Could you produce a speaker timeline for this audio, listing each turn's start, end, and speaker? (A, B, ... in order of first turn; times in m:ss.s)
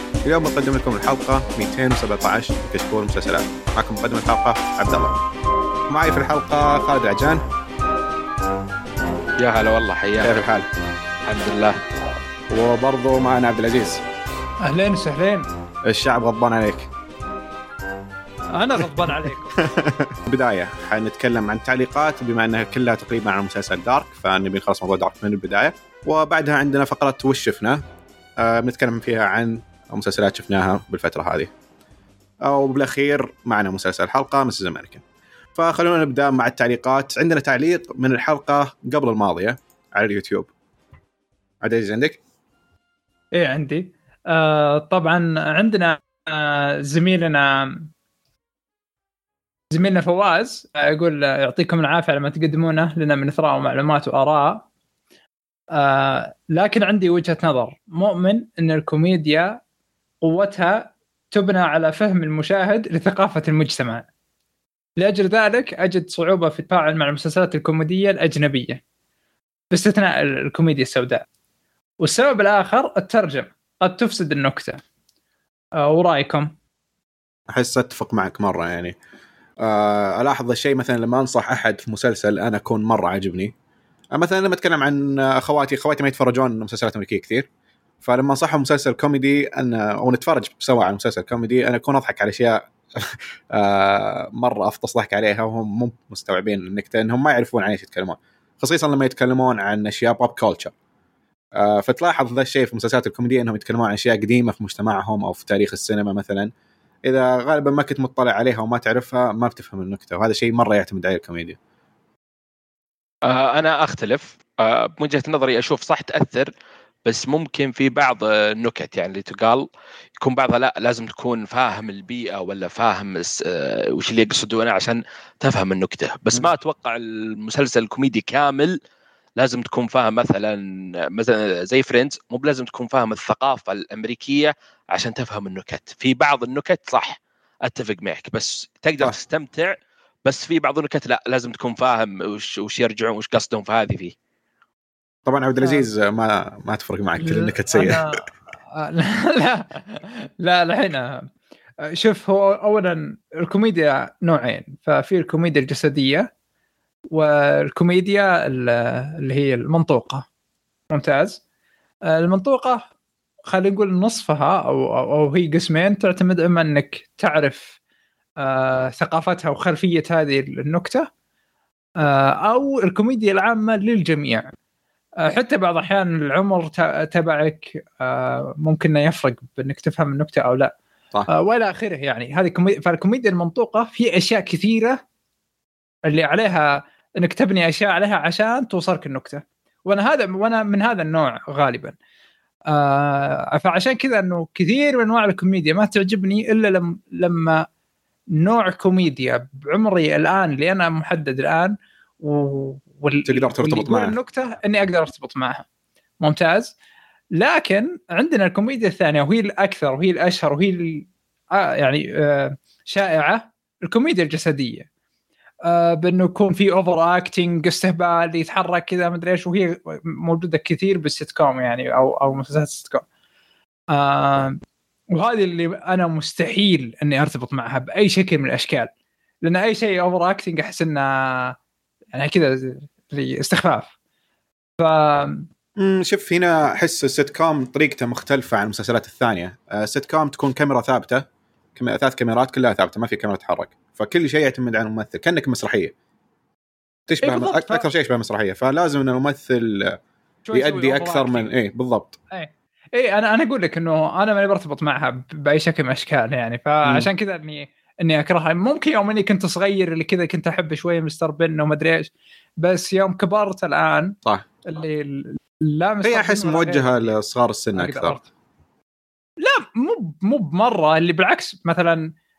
0:00.2-0:05.2 A
0:05.9-0:07.4 A
0:09.4-0:10.4 B
0:10.2-0:10.7 A
0:11.2-0:11.8 B
0:12.5-0:14.0 A
0:14.6-0:15.4 C
0:15.9-0:16.9 A
0:18.5-0:19.5 C
0:19.2-0:27.8 A
0:28.4-0:31.5 A
0:32.4-0:35.0 A
0:35.6-0:40.5 A
0:41.6-0:42.2 A
0:43.3-0:47.9 C
0:49.7-0:54.6 C
0:55.7-0:59.6 C
1:00.2-1:04.1 C
1:05.0-1:08.8 C
1:09.7-1:11.2 C
1:12.0-1:14.8 C
1:15.8-1:16.5 C
1:17.5-1:19.0 A
1:19.6-1:23.5 A
1:24.1-1:27.5 A
1:28.0-1:40.7 A
1:41.6-1:46.5 A
1:47.0-1:51.6 A
1:53.2-1:56.5 B
1:57.0-2:08.8 B
2:09.4-2:24.1 B
2:25.2-2:28.0 A
2:27.2-2:31.3 C
2:31.8-2:36.3 C
2:37.1-2:40.2 C
2:40.9-2:41.4 C
2:42.0-2:42.8 C
2:43.5-2:47.7 C
2:48.4-2:51.1 C
2:52.0-2:54.5 C
2:55.2-3:00.7 C
3:01.3-3:05.0 C
3:06.1-3:12.0 C
3:12.7-3:17.6 C
3:18.3-3:25.6 C
3:23.2-3:24.2 A
3:26.2-3:26.7 C
3:27.3-3:34.9 C
3:35.6-3:43.0 C
3:43.9-3:44.6 C
3:45.1-3:48.9 C
3:49.4-3:51.5 C
3:52.1-3:53.9 C
3:54.8-3:55.5 C
3:55.8-4:05.9 A
4:07.1-4:10.0 A
4:07.2-4:07.8 C
4:10.5-4:11.5 C
4:10.5-4:12.2 A
4:12.3-4:27.1 C
4:16.8-4:17.1 A
4:26.0-4:28.2 A
4:27.8-4:28.2 C
4:29.4-4:32.1 C